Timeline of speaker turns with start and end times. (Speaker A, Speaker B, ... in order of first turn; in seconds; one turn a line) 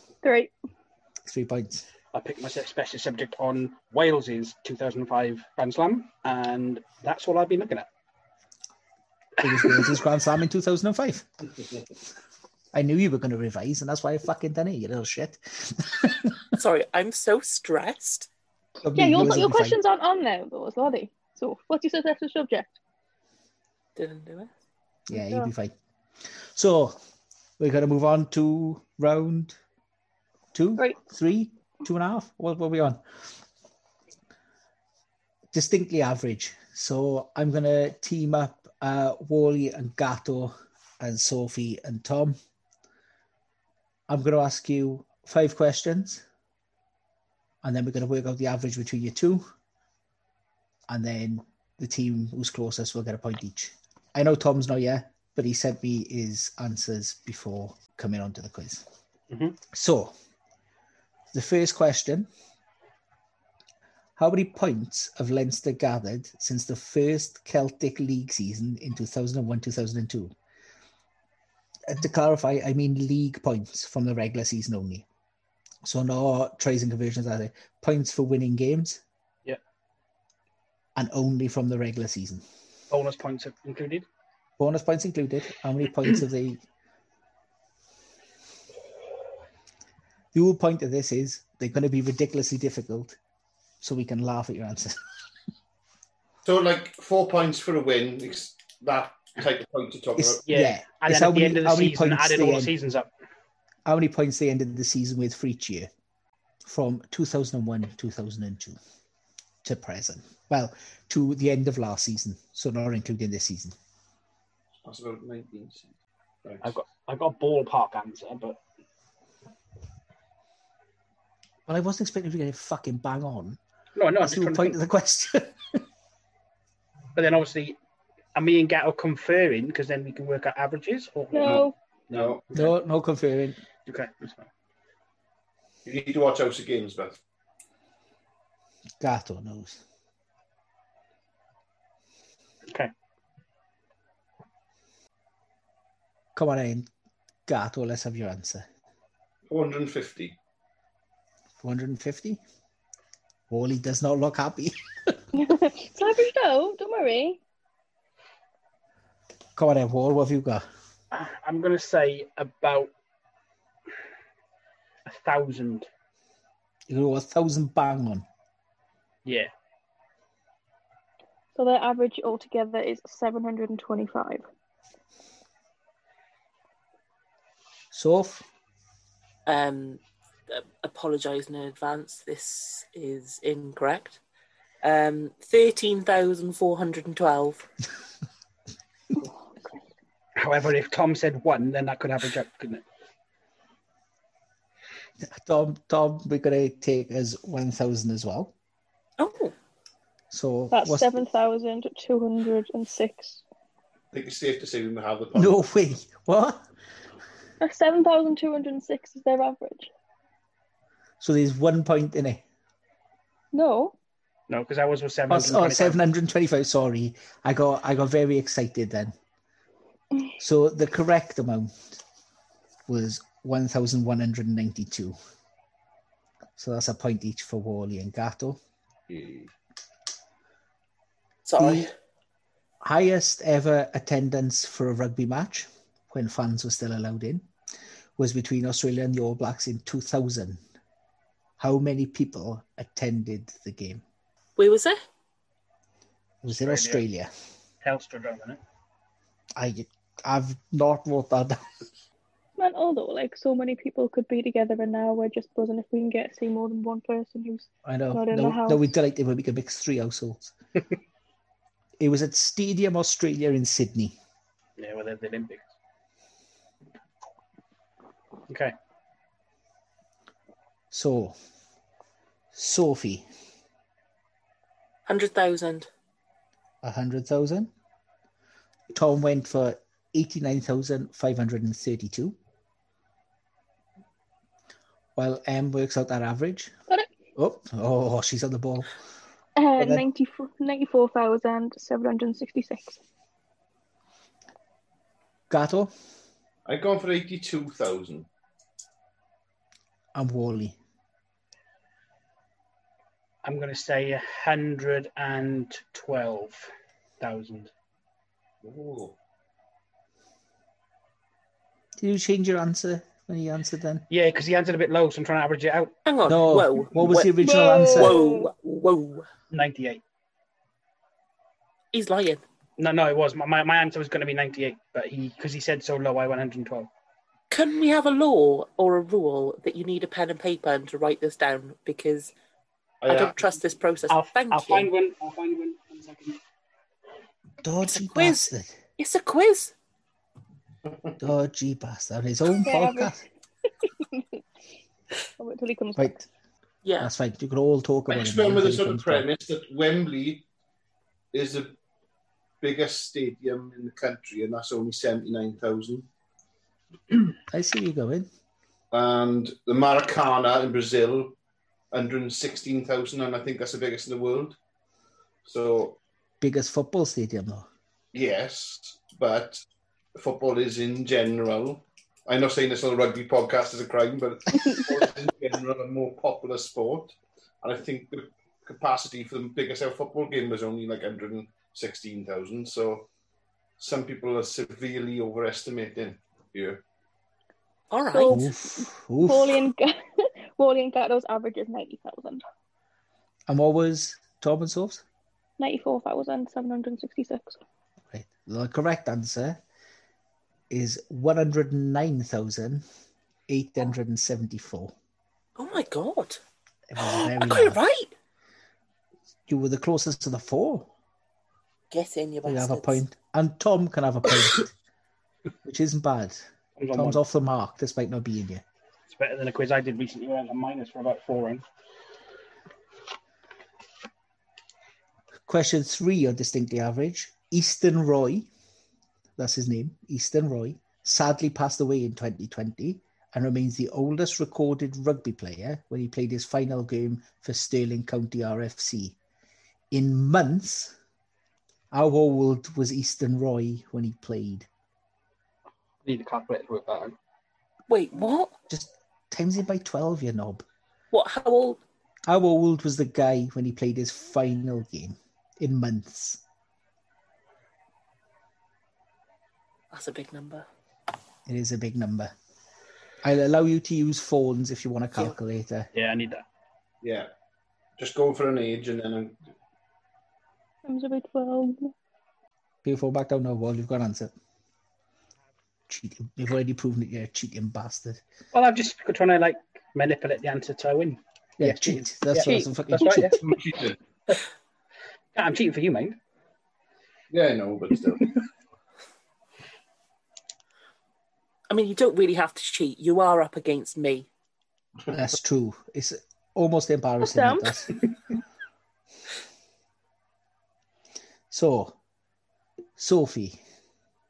Speaker A: 0.2-0.5
Speaker B: 1.2-1.9
Speaker C: 2.1-7.9
Speaker B: 9.4-11.3
Speaker B: 12.7-16.4
Speaker D: 16.6-18.3
Speaker B: 18.8-19.8
Speaker A: 18.9-22.8
Speaker D: 23.9-24.5
Speaker B: 25.1-25.7
Speaker A: 25.1-25.5
Speaker B: 26.4-27.0
Speaker B: 27.6-29.6
Speaker B: 30.5-33.0
Speaker B: 35.5-42.4
Speaker B: 44.1-46.2
Speaker B: 47.6-49.4
Speaker B: 50.9-58.8
Speaker C: 59.3-59.5
Speaker B: 59.7-60.1
Speaker B: 61.3-62.3
Speaker B: 64.2-70.3
Speaker B: 71.9-75.0
Speaker B: 75.8-79.0
Speaker B: 80.9-82.4
Speaker C: 82.9-84.0
Speaker B: 84.6-86.6
Speaker B: 90.3-93.2
Speaker B: 93.8-95.0
Speaker E: 96.4-100.4
Speaker B: 100.2-102.7
Speaker C: 100.5-103.1
Speaker B: 103.8-105.9
Speaker B: 106.6-108.8
Speaker B: 109.6-113.8
Speaker E: 114.8-115.9
Speaker E: 116.4-116.7
Speaker C: 116.6-118.6
Speaker B: 121.7-123.6
Speaker C: 124.0-124.8
Speaker B: 124.2-125.8
Speaker C: 127.1-127.8
Speaker C: 128.3-132.7
Speaker A: 131.3-131.7
Speaker E: 131.4-132.5
Speaker B: 132.5-133.6
Speaker C: 133.8-134.5
Speaker E: 135.8-137.2
Speaker B: 139.0-139.8
Speaker B: 146.3-146.9
Speaker B: 147.5-148.7
Speaker E: 149.5-150.3
Speaker B: 151.6-152.4
Speaker B: 153.5-155.2
Speaker A: 155.3-157.4
Speaker B: 159.6-160.6
Speaker C: 161.1-162.9
Speaker C: 165.1-165.9
Speaker B: 166.9-168.2
Speaker C: 169.2-169.5
Speaker A: 171.5-174.4
Speaker B: 177.9-178.4
Speaker D: 179.4-184.2
Speaker D: 184.8-187.7
Speaker C: 190.4-192.8
Speaker B: 195.3-198.5
Speaker D: 199.2-199.5
Speaker B: 200.3-201.1
Speaker A: 200.7-203.4
Speaker E: 204.1-205.6
Speaker B: 205.3-206.6
Speaker A: 207.6-209.9
Speaker B: 211.2-212.4
Speaker A: 213.5-213.9
Speaker C: 214.5-216.0
Speaker B: 215.3-219.1
Speaker B: 220.4-221.9
Speaker B: 222.9-225.2
Speaker B: 226.6-228.6
Speaker E: 229.1-229.5
Speaker D: 231.4-231.9
Speaker B: 231.6-231.9
Speaker B: 232.8-237.5
Speaker B: 238.2-240.6
Speaker B: 241.6-244.0
Speaker D: 244.6-245.0
Speaker B: 246.4-247.3
Speaker C: 246.5-247.0
Speaker C: 247.8-248.6
Speaker B: 249.6-251.7
Speaker A: 252.6-258.8
Speaker B: 257.8-260.5
Speaker B: 262.0-264.1
Speaker C: 264.8-265.7
Speaker B: 270.9-271.4
Speaker B: 272.5-273.2
Speaker D: 275.1-275.9
Speaker B: 276.8-277.7
Speaker B: 278.9-282.4
Speaker B: 285.1-286.7
Speaker B: 287.4-288.9
Speaker A: 289.6-293.0
Speaker B: 289.8-290.1
Speaker B: 295.5-295.9
Speaker E: 296.7-298.3
Speaker B: 300.1-300.8
Speaker C: 303.4-307.7
Speaker E: 308.6-309.1
Speaker B: 312.0-314.1
Speaker C: 314.1-315.9
Speaker D: 316.1-319.3
Speaker B: 316.3-318.2
Speaker A: 317.4-318.5
Speaker C: 319.5-320.0
Speaker D: 321.9-322.4
Speaker C: 322.8-326.9
Speaker D: 327.5-332.3
Speaker E: 333.0-333.4
Speaker D: 333.1-334.9
Speaker C: 334.1-336.4
Speaker B: 337.6-338.8
Speaker D: 337.9-338.4
Speaker D: 339.0-339.7
Speaker B: 341.2-343.2
Speaker A: 342.6-343.2
Speaker A: 344.1-344.4
Speaker A: 345.4-346.2
Speaker B: 345.9-346.2
Speaker D: 346.8-347.1
Speaker B: 347.0-349.2
Speaker E: 348.1-350.4
Speaker E: 351.3-351.8
Speaker E: 352.6-356.1
Speaker B: 357.5-358.3
Speaker E: 358.9-361.4
Speaker E: 361.9-364.6
Speaker E: 365.4-366.0
Speaker B: 366.4-367.7
Speaker E: 368.1-369.6
Speaker E: 370.1-383.1
Speaker E: 383.8-386.8
Speaker D: 387.9-388.4
Speaker A: 388.1-392.4
Speaker B: 388.3-389.7
Speaker B: 393.5-395.0
Speaker A: 395.6-397.6
Speaker B: 398.1-399.6
Speaker B: 400.7-402.8
Speaker B: 403.5-404.9
Speaker D: 405.6-406.4
Speaker B: 406.9-407.8
Speaker D: 407.0-408.1
Speaker B: 409.5-410.9
Speaker D: 411.9-413.0
Speaker B: 412.4-414.7
Speaker B: 415.6-418.6
Speaker C: 416.8-417.2
Speaker C: 419.1-421.6
Speaker B: 425.5-428.5
Speaker B: 429.4-439.1
Speaker B: 439.9-440.9
Speaker B: 441.9-444.7
Speaker C: 446.0-447.1
Speaker D: 447.9-448.6
Speaker B: 448.7-450.6
Speaker D: 451.1-451.8
Speaker B: 452.3-456.4
Speaker D: 459.9-460.6
Speaker B: 461.4-462.3
Speaker B: 463.2-465.9
Speaker C: 465.9-466.4
Speaker E: 467.0-467.3
Speaker E: 468.0-469.4
Speaker A: 470.8-471.9
Speaker B: 472.8-474.3
Speaker B: 475.9-478.2
Speaker C: 478.5-483.4
Speaker B: 481.6-483.4
Speaker A: 482.4-482.6
Speaker E: 483.4-484.0
Speaker C: 485.3-486.2
Speaker E: 487.3-488.3
Speaker D: 491.7-494.3
Speaker B: 495.1-497.9
Speaker A: 497.2-497.8
Speaker B: 501.5-501.9
Speaker B: 503.0-503.6